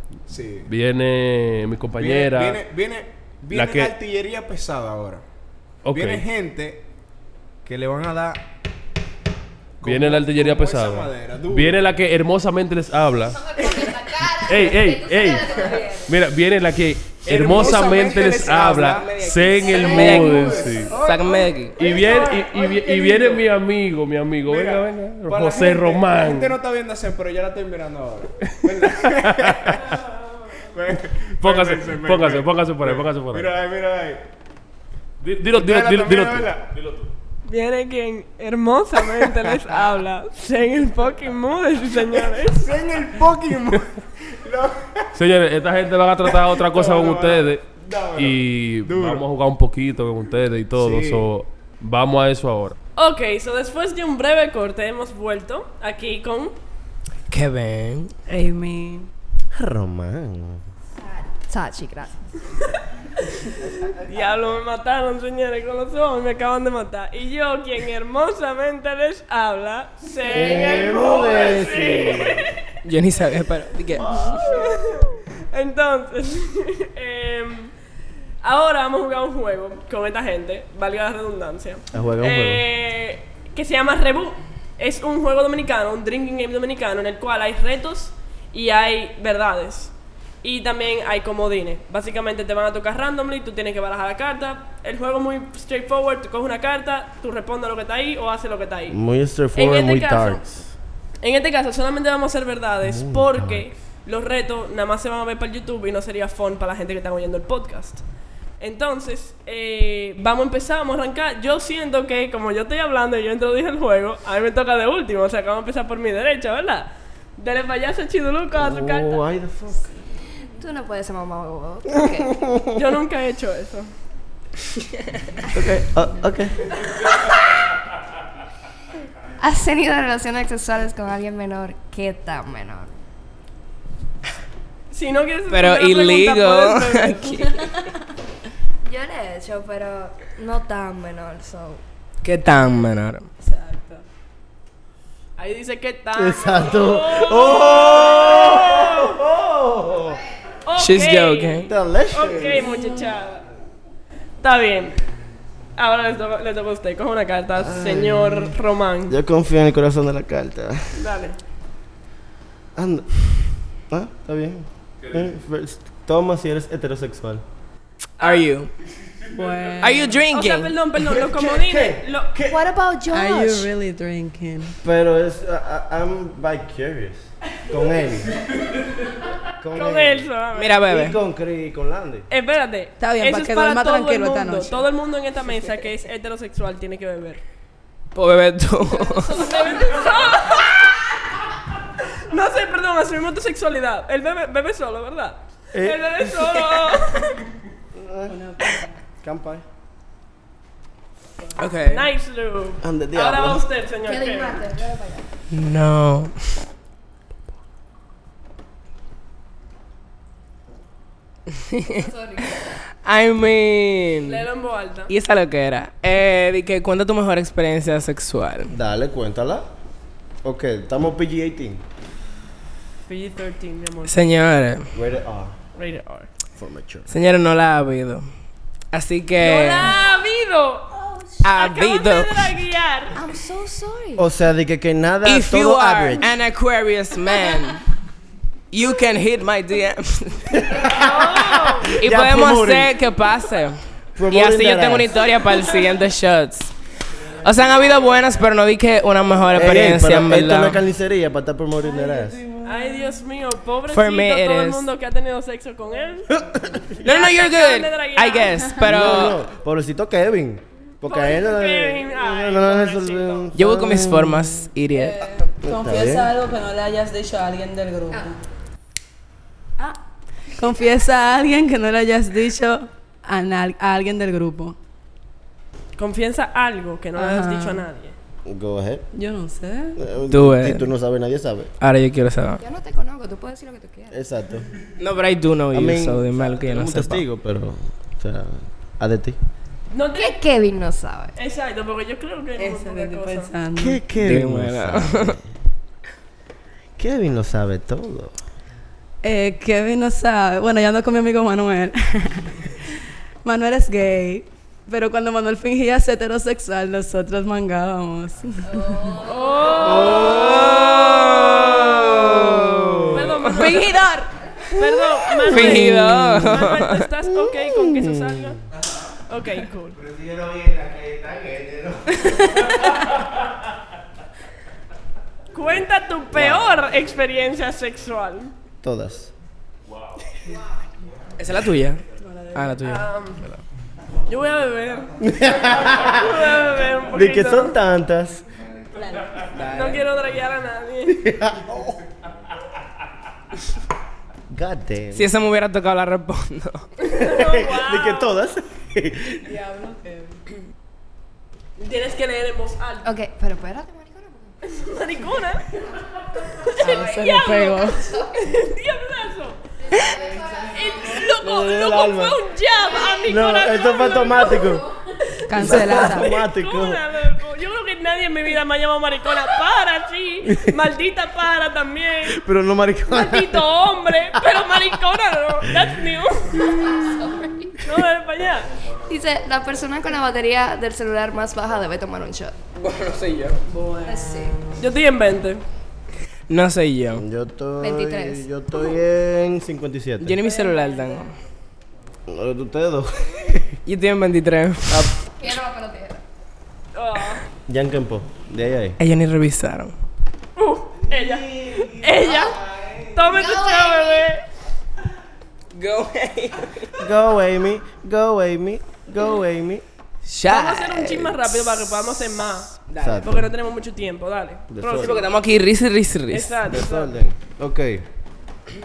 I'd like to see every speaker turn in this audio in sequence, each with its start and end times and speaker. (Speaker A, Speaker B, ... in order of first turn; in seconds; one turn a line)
Speaker A: 0.3-0.7
Speaker B: 0.7-2.6
Speaker A: 1.9-5.2
Speaker B: 3.5-3.9
Speaker B: 5.8-6.2
Speaker A: 5.9-6.8
Speaker A: 7.6-8.4
Speaker A: 9.8-11.8
Speaker B: 9.8-13.5
Speaker C: 13.4-16.1
Speaker B: 14.2-20.9
Speaker A: 15.6-15.8
Speaker A: 17.2-23.4
Speaker D: 18.8-21.8
Speaker B: 21.8-26.6
Speaker A: 24.4-30.0
Speaker B: 28.6-29.8
Speaker A: 30.6-34.2
Speaker B: 31.4-33.5
Speaker B: 35.2-37.1
Speaker A: 35.5-36.7
Speaker E: 37.4-42.7
Speaker A: 42.2-45.1
Speaker B: 45.1-47.6
Speaker A: 46.2-49.2
Speaker B: 48.1-52.8
Speaker A: 50.8-51.3
Speaker E: 53.0-56.6
Speaker D: 57.3-58.1
Speaker F: 58.3-59.1
Speaker G: 59.5-60.6
Speaker C: 61.1-62.2
Speaker E: 64.0-72.5
Speaker G: 70.3-72.4
Speaker D: 72.8-74.2
Speaker G: 74.0-74.7
Speaker E: 74.2-77.7
Speaker E: 78.4-99.0
Speaker G: 81.9-82.6
Speaker G: 98.9-100.7
Speaker E: 99.5-100.4
Speaker E: 101.2-108.0
Speaker G: 102.8-103.7
Speaker E: 108.6-119.2
Speaker G: 118.5-119.9
Speaker C: 120.6-122.4
Speaker G: 122.3-122.7
Speaker E: 122.8-123.9
Speaker G: 125.5-126.6
Speaker C: 129.4-132.9
Speaker E: 134.9-137.4
Speaker D: 135.5-137.8
Speaker C: 138.8-141.8
Speaker D: 142.2-143.3
Speaker F: 143.4-144.0
Speaker E: 145.4-149.2
Speaker G: 146.2-150.2
Speaker E: 150.7-153.4
Speaker D: 150.8-151.7
Speaker G: 151.7-152.7
Speaker F: 152.7-153.0
Speaker E: 154.4-154.9
Speaker E: 155.8-159.1
Speaker G: 157.6-158.5
Speaker G: 159.1-161.0
Speaker E: 160.9-161.4
Speaker G: 162.8-163.3
Speaker G: 163.9-167.4
Speaker E: 168.2-168.5
Speaker D: 168.2-168.7
Speaker F: 169.3-170.2
Speaker D: 169.8-170.8
Speaker E: 170.2-172.4
Speaker G: 171.0-172.6
Speaker C: 172.5-173.7
Speaker F: 173.1-174.8
Speaker G: 174.8-178.3
Speaker G: 179.6-180.3
Speaker E: 179.7-180.9
Speaker D: 180.5-181.2
Speaker G: 180.9-182.2
Speaker E: 182.3-187.4
Speaker F: 183.0-184.8
Speaker D: 188.1-189.4
Speaker E: 188.9-191.1
Speaker E: 192.3-197.4
Speaker G: 195.7-196.6
Speaker G: 197.9-198.4
Speaker F: 198.3-199.0
Speaker G: 199.2-199.6
Speaker D: 201.6-202.1
Speaker E: 201.8-204.6
Speaker G: 202.8-203.7
Speaker C: 204.0-205.3
Speaker D: 205.5-206.3
Speaker D: 211.5-212.1
Speaker C: 211.9-212.6
Speaker D: 213.0-214.4
Speaker E: 214.2-215.1
Speaker D: 215.1-218.7
Speaker G: 218.7-219.7
Speaker G: 220.4-221.8
Speaker E: 223.1-224.3
Speaker D: 224.1-224.9
Speaker G: 224.9-225.5
Speaker E: 225.8-226.3
Speaker G: 226.6-227.2
Speaker D: 227.1-228.2
Speaker D: 228.9-229.9
Speaker E: 229.3-233.2
Speaker D: 231.4-232.5
Speaker C: 233.1-234.3
Speaker G: 234.2-236.3
Speaker D: 235.2-237.8
Speaker D: 238.7-240.5
Speaker G: 240.5-242.9
Speaker E: 240.9-241.9
Speaker D: 242.0-243.8
Speaker G: 244.2-245.3
Speaker D: 244.3-246.7
Speaker D: 247.4-250.8
Speaker G: 249.5-252.6
Speaker E: 252.6-256.3
Speaker D: 253.9-254.9
Speaker G: 256.3-256.9
Speaker E: 257.0-258.7
Speaker D: 257.0-259.4
Speaker G: 258.8-264.6
Speaker E: 261.0-263.5
Speaker D: 263.5-265.2
Speaker F: 264.9-268.4
Speaker G: 265.6-266.3
Speaker F: 270.6-274.8
Speaker E: 275.9-278.1
Speaker F: 277.1-277.9
Speaker G: 278.4-279.0
Speaker F: 279.1-280.0
Speaker G: 280.0-281.7
Speaker D: 280.3-280.9
Speaker D: 281.8-282.6
Speaker C: 282.6-284.2
Speaker G: 284.1-284.6
Speaker D: 285.0-287.2
Speaker G: 285.7-289.4
Speaker E: 289.9-290.4
Speaker C: 290.1-291.4
Speaker E: 291.4-293.5
Speaker F: 292.6-294.0
Speaker G: 293.8-295.4
Speaker D: 294.2-295.4
Speaker G: 297.0-298.4
Speaker F: 299.2-302.8
Speaker F: 303.4-309.0
Speaker C: 308.7-309.9
Speaker E: 309.2-310.7
Speaker G: 309.8-310.7
Speaker D: 310.3-313.7
Speaker G: 312.2-313.3
Speaker E: 313.1-314.1
Speaker F: 313.6-314.3
Speaker E: 314.7-318.6
Speaker D: 315.5-317.1
Speaker F: 315.6-316.5
Speaker G: 317.3-318.5
Speaker E: 319.3-320.0
Speaker G: 320.0-322.5
Speaker E: 325.5-328.5
Speaker G: 326.3-326.7
Speaker G: 328.8-329.3
Speaker D: 331.4-332.0
Speaker F: 332.2-332.8
Speaker D: 332.5-333.6
Speaker E: 332.8-333.5
Speaker E: 334.3-335.2
Speaker G: 335.2-336.3
Speaker E: 335.8-337.8
Speaker G: 337.1-338.4
Speaker F: 339.0-339.4
Speaker D: 339.5-340.0
Speaker E: 339.6-341.2
Speaker G: 341.1-342.0
Speaker G: 344.5-345.3
Speaker D: 345.1-346.9
Speaker E: 347.0-348.4
Speaker G: 347.2-349.4
Speaker F: 349.4-350.4
Speaker E: 351.8-353.1
Speaker C: 353.0-354.6
Speaker E: 354.6-355.6
Speaker E: 356.6-359.6
Speaker F: 356.8-358.0
Speaker C: 356.8-358.5
Speaker C: 359.9-360.8
Speaker E: 360.2-364.8
Speaker G: 361.4-362.4
Speaker G: 363.2-364.8
Speaker F: 365.5-366.3
Speaker G: 365.5-367.0
Speaker E: 365.6-372.4
Speaker G: 372.3-373.7
Speaker E: 373.1-376.6
Speaker G: 374.4-374.6
Speaker C: 376.6-377.7
Speaker E: 377.8-378.7
Speaker C: 379.1-382.5
Speaker D: 382.8-383.6
Speaker F: 383.7-384.5
Speaker C: 384.0-384.6
Speaker E: 384.8-385.6
Speaker D: 386.5-387.2
Speaker G: 387.1-390.4
Speaker C: 387.8-389.0
Speaker D: 390.2-391.3
Speaker C: 390.4-390.9
Speaker G: 392.3-393.8
Speaker D: 393.9-395.1
Speaker G: 394.9-395.1
Speaker C: 395.4-396.2
Speaker E: 396.9-397.4
Speaker G: 397.7-399.0
Speaker D: 399.0-399.9
Speaker E: 400.6-404.4
Speaker C: 403.2-404.3
Speaker D: 405.7-407.0
Speaker G: 406.9-409.8
Speaker D: 410.2-411.4
Speaker E: 410.4-415.3
Speaker D: 412.9-413.2
Speaker G: 413.0-413.5
Speaker G: 414.7-415.2
Speaker D: 415.0-416.6
Speaker E: 416.3-417.1
Speaker G: 416.6-418.0